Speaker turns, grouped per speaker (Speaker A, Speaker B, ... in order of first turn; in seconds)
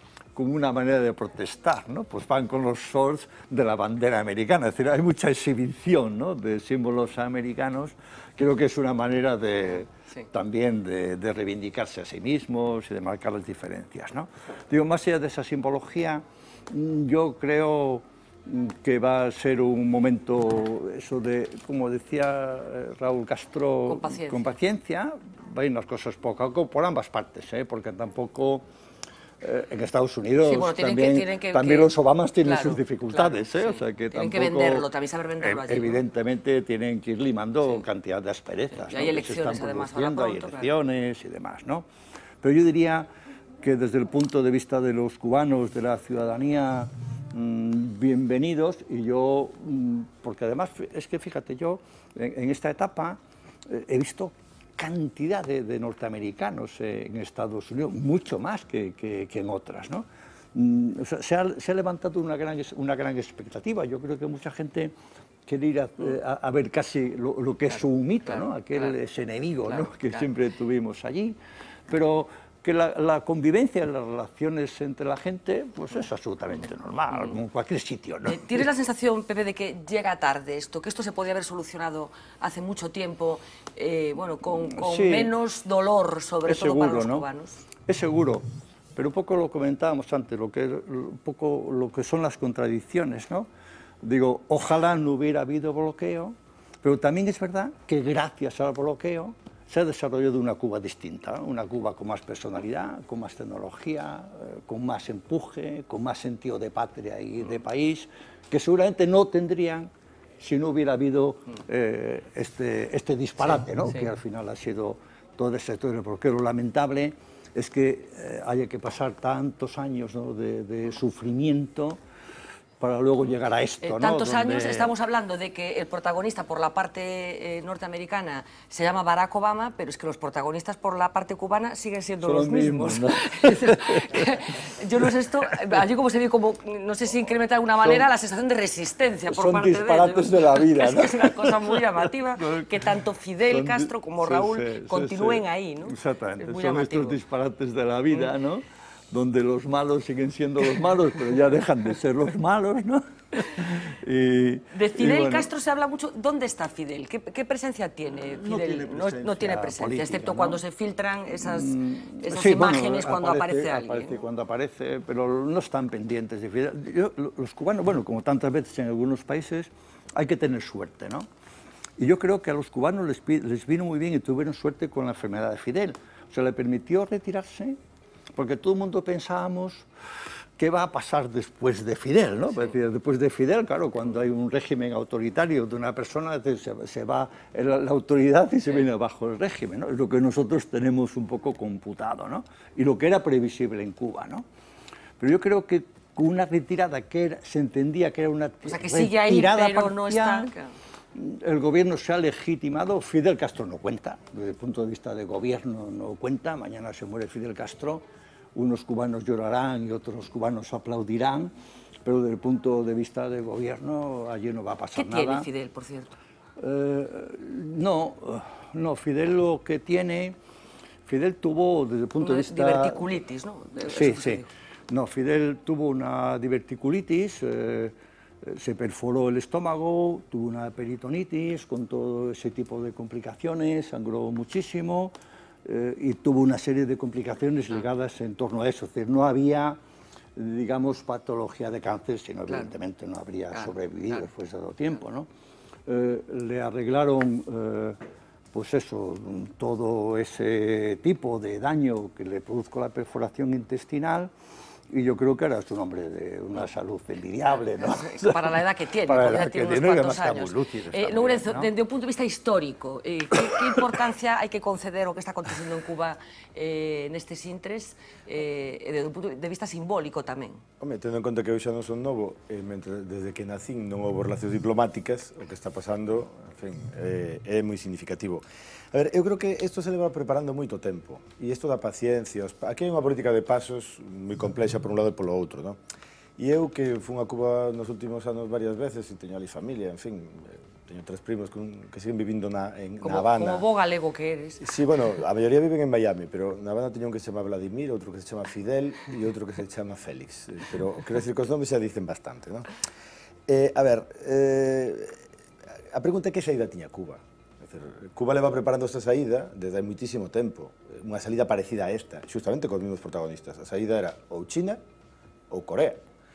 Speaker A: 0.4-28.6, 29.4-34.9, 35.4-41.9, 42.4-43.1, 43.6-64.9, 65.5-78.7, 84.6-85.3, 86.5-87.3, 87.9-88.5, 89.0-93.5, 94.0-122.0, 122.8-124.9, 132.2-134.4, 135.0-135.8, 137.8-138.1, 139.3-155.5, 158.2-160.6, 161.4-171.3, 172.0-177.8, 178.3-179.9, 180.6-194.4, 195.2-200.5, 201.1-208.0, 208.6-211.5, 212.1-215.5, 216.6-220.4, 221.1-223.1, 223.9-227.9, 228.4-235.1, 235.6-239.8, 240.4-245.3, 245.9-248.0, 248.5-254.3, 254.9-261.7, 263.3-264.0
Speaker B: 23.9-24.4, 30.4-36.0, 38.8-40.7, 68.3-68.9, 69.7-70.2, 77.1-77.4, 78.3-87.6, 123.8-147.2, 154.7-164.2, 198.7-200.7, 214.9-216.1, 222.2-224.5, 243.5-244.2, 257.8-270.6, 293.0-294.6
Speaker C: 270.8-285.8, 286.4-293.6, 294.6-302.7, 303.5-305.2, 305.9-314.8, 315.5-316.0